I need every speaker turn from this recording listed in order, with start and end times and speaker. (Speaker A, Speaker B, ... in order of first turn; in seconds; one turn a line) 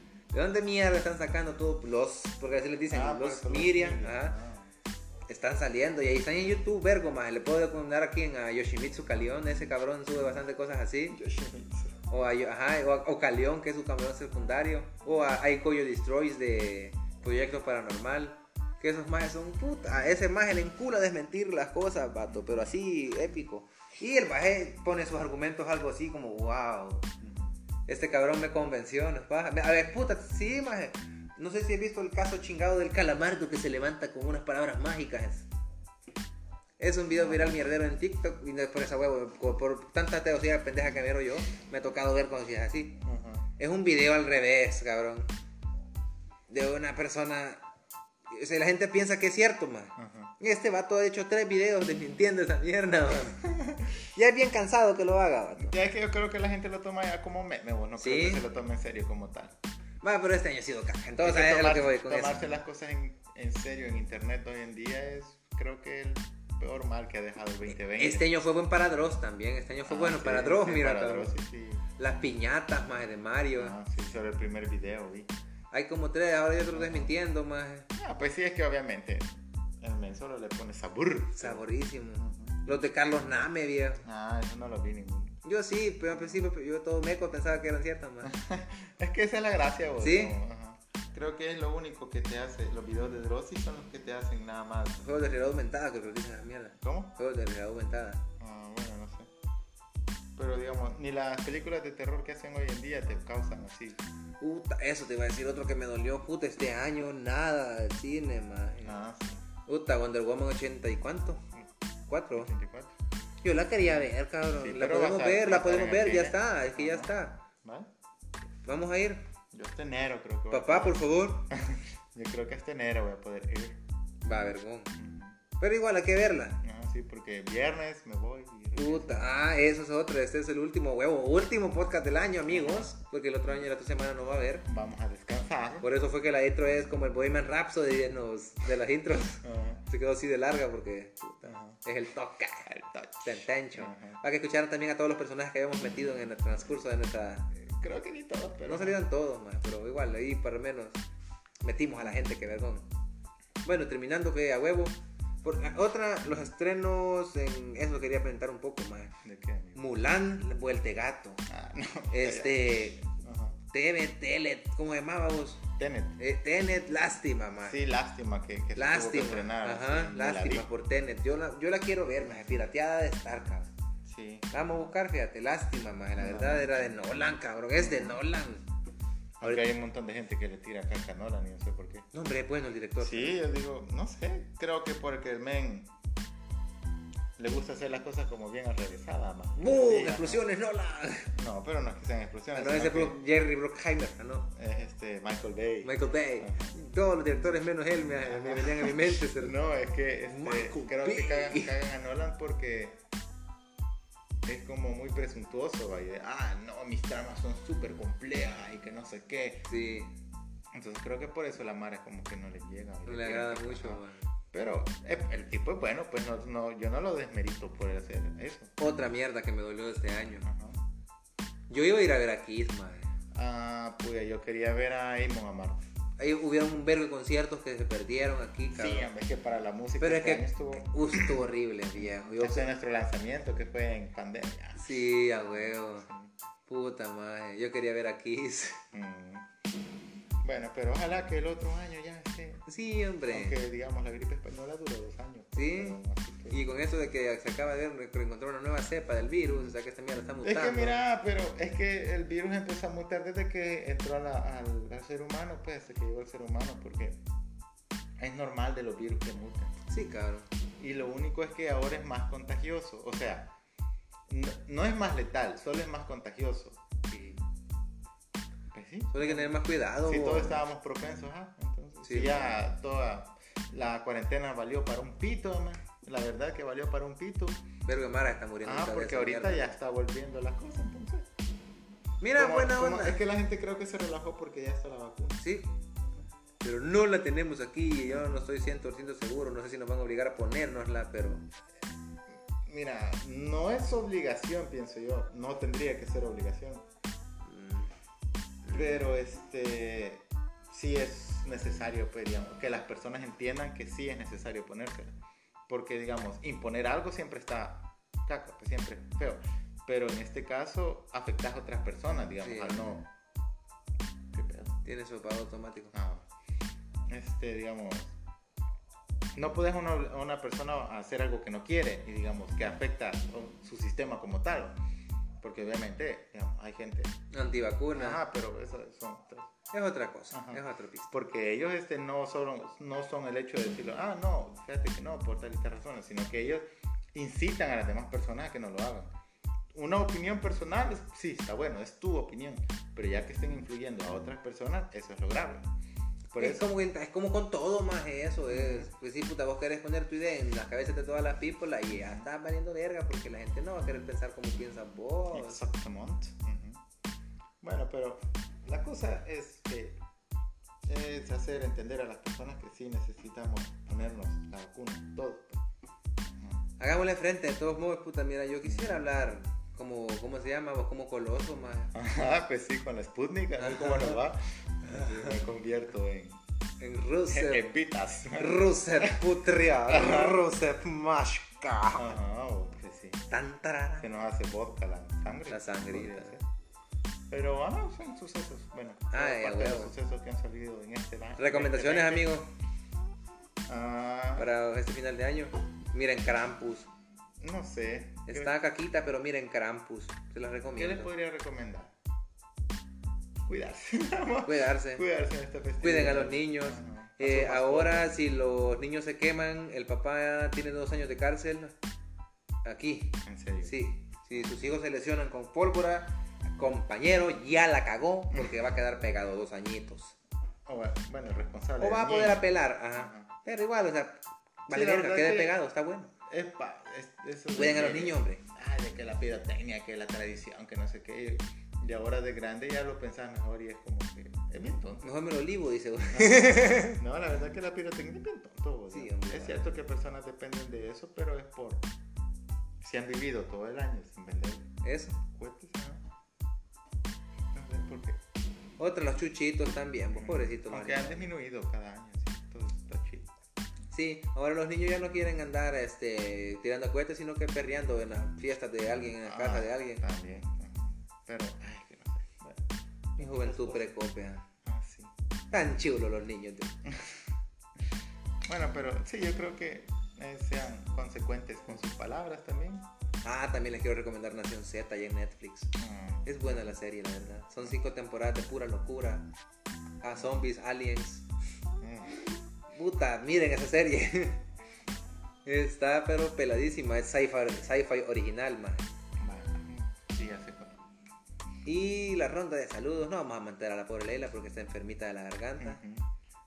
Speaker A: 0.3-4.3
Speaker B: 2.9-4.7
Speaker A: 5.3-11.2
Speaker B: 11.1-12.1
Speaker A: 12.1-27.1
Speaker B: 22.3-22.7
Speaker B: 27.2-27.5
Speaker A: 27.9-35.5
Speaker A: 36.8-43.0
Speaker B: 37.1-37.8
Speaker B: 43.0-43.5
Speaker A: 43.6-45.3
Speaker A: 46.5-47.6
Speaker A: 48.3-53.4
Speaker B: 50.0-50.3
Speaker B: 53.5-53.9
Speaker A: 54.1-55.8
Speaker B: 55.6-59.5
Speaker A: 58.0-58.4
Speaker A: 60.0-62.4
Speaker B: 61.2-68.3
Speaker A: 67.7-71.3
Speaker B: 69.8-71.8
Speaker A: 72.0-73.7
Speaker B: 73.6-75.3
Speaker A: 75.7-77.9
Speaker B: 76.7-77.1
Speaker B: 77.9-81.6
Speaker A: 81.3-84.0
Speaker B: 82.2-82.6
Speaker B: 84.0-85.4
Speaker A: 85.4-88.3
Speaker B: 86.1-86.5
Speaker B: 88.2-95.0
Speaker A: 90.0-90.4
Speaker A: 95.0-98.2
Speaker B: 96.8-97.1
Speaker B: 98.4-99.3
Speaker B: 100.4-104.0
Speaker A: 104.4-109.0
Speaker B: 108.8-109.4
Speaker A: 109.7-111.4
Speaker A: 112.1-112.5
Speaker B: 112.3-112.9
Speaker A: 113.4-117.4
Speaker B: 114.5-117.9
Speaker A: 118.6-119.2
Speaker B: 119.5-123.8
Speaker A: 120.5-121.5
Speaker A: 124.2-124.9
Speaker B: 124.9-125.4
Speaker A: 125.6-126.6
Speaker B: 126.6-129.3
Speaker A: 128.7-134.7
Speaker B: 132.5-132.9
Speaker B: 134.7-135.9
Speaker A: 135.8-142.7
Speaker B: 139.4-139.8
Speaker B: 141.4-141.8
Speaker B: 142.7-144.2
Speaker A: 143.2-147.5
Speaker B: 147.6-149.0
Speaker A: 148.6-151.0
Speaker A: 151.6-152.8
Speaker B: 152.0-152.5
Speaker A: 153.6-159.1
Speaker B: 159.2-159.8
Speaker A: 159.7-161.4
Speaker B: 161.5-163.6
Speaker A: 162.1-163.0
Speaker A: 163.7-165.6
Speaker B: 165.8-166.2
Speaker A: 166.2-167.8
Speaker B: 167.6-170.7
Speaker A: 168.8-173.7
Speaker B: 174.0-174.9
Speaker A: 174.5-178.6
Speaker B: 176.2-177.0
Speaker B: 177.8-178.2
Speaker B: 179.4-182.1
Speaker A: 182.1-183.4
Speaker B: 183.0-185.9
Speaker B: 187.4-190.4
Speaker A: 189.6-191.3
Speaker B: 191.3-193.2
Speaker A: 192.5-194.5
Speaker B: 194.5-196.8
Speaker A: 195.8-199.6
Speaker B: 198.2-203.0
Speaker A: 200.3-201.7
Speaker B: 204.4-209.6
Speaker A: 209.7-210.1
Speaker B: 210.7-218.8
Speaker A: 213.0-214.3
Speaker A: 218.8-220.5
Speaker B: 220.4-220.8
Speaker A: 221.7-223.1
Speaker B: 223.3-225.8
Speaker A: 226.2-229.1
Speaker B: 228.7-236.3
Speaker A: 230.0-232.7
Speaker A: 234.8-236.1
Speaker A: 236.7-238.8
Speaker B: 238.9-239.5
Speaker B: 240.4-242.6
Speaker A: 242.7-243.6
Speaker B: 243.3-246.6
Speaker A: 245.6-246.0
Speaker A: 246.5-251.0
Speaker B: 250.4-257.2
Speaker B: 258.2-259.8
Speaker A: 259.9-260.5
Speaker B: 260.8-263.5
Speaker B: 264.3-266.8
Speaker A: 267.1-267.4
Speaker B: 268.7-277.6
Speaker A: 269.1-270.6
Speaker A: 272.0-272.6
Speaker A: 277.9-279.7
Speaker B: 278.6-281.3
Speaker A: 282.2-283.2
Speaker B: 282.4-285.4
Speaker A: 285.4-285.7
Speaker A: 286.6-291.4
Speaker B: 288.1-288.4
Speaker B: 292.6-296.8
Speaker A: 297.4-297.9
Speaker A: 298.6-299.1
Speaker B: 298.7-305.1
Speaker B: 305.7-313.1
Speaker A: 312.4-312.8
Speaker B: 314.3-314.7
Speaker A: 314.8-315.9
Speaker B: 315.9-316.2
Speaker B: 317.1-318.1
Speaker B: 319.3-324.8
Speaker B: 325.4-327.1
Speaker A: 327.3-328.2
Speaker B: 327.9-329.5
Speaker A: 329.7-331.1
Speaker B: 330.3-339.1
Speaker B: 339.7-345.7
Speaker B: 346.3-346.6
Speaker A: 346.3-355.6
Speaker B: 348.5-348.9
Speaker B: 351.9-352.2
Speaker B: 355.3-356.8
Speaker B: 357.6-360.0
Speaker B: 360.9-365.6
Speaker B: 366.4-366.6
Speaker A: 366.8-371.9
Speaker B: 368.6-369.0
Speaker B: 371.9-376.4
Speaker A: 373.6-374.2
Speaker A: 374.8-375.4
Speaker A: 376.8-377.6
Speaker B: 377.3-379.3
Speaker A: 378.3-382.1
Speaker B: 379.9-380.4
Speaker B: 381.9-383.2
Speaker A: 383.3-384.1
Speaker B: 384.0-386.4
Speaker A: 385.5-386.3
Speaker B: 387.3-392.3
Speaker A: 389.1-389.9
Speaker A: 391.4-392.5
Speaker B: 393.7-394.5
Speaker A: 394.4-396.9
Speaker B: 397.4-398.5
Speaker A: 398.3-401.1
Speaker B: 400.8-401.9
Speaker B: 403.4-408.1
Speaker A: 404.4-405.0
Speaker A: 405.8-411.7
Speaker A: 412.6-420.1
Speaker B: 413.2-413.8
Speaker B: 420.6-423.3
Speaker A: 421.8-426.1
Speaker B: 424.7-425.6
Speaker B: 426.2-435.1
Speaker A: 427.5-428.4
Speaker A: 435.0-437.0
Speaker B: 436.1-441.9
Speaker A: 438.9-439.7
Speaker B: 442.8-446.1
Speaker A: 444.8-445.2
Speaker B: 447.5-448.2
Speaker A: 448.8-451.3
Speaker B: 450.1-453.3
Speaker A: 453.9-460.0
Speaker B: 459.2-463.9
Speaker A: 463.2-464.4
Speaker B: 464.6-465.1
Speaker A: 465.5-466.7
Speaker B: 466.8-467.2
Speaker B: 468.5-472.9
Speaker A: 473.2-479.2
Speaker B: 475.8-476.7
Speaker A: 480.0-481.2
Speaker B: 480.1-480.4
Speaker B: 481.8-482.2
Speaker A: 482.7-484.4
Speaker A: 485.4-488.9
Speaker B: 489.2-490.7
Speaker A: 491.6-495.8
Speaker B: 495.6-496.1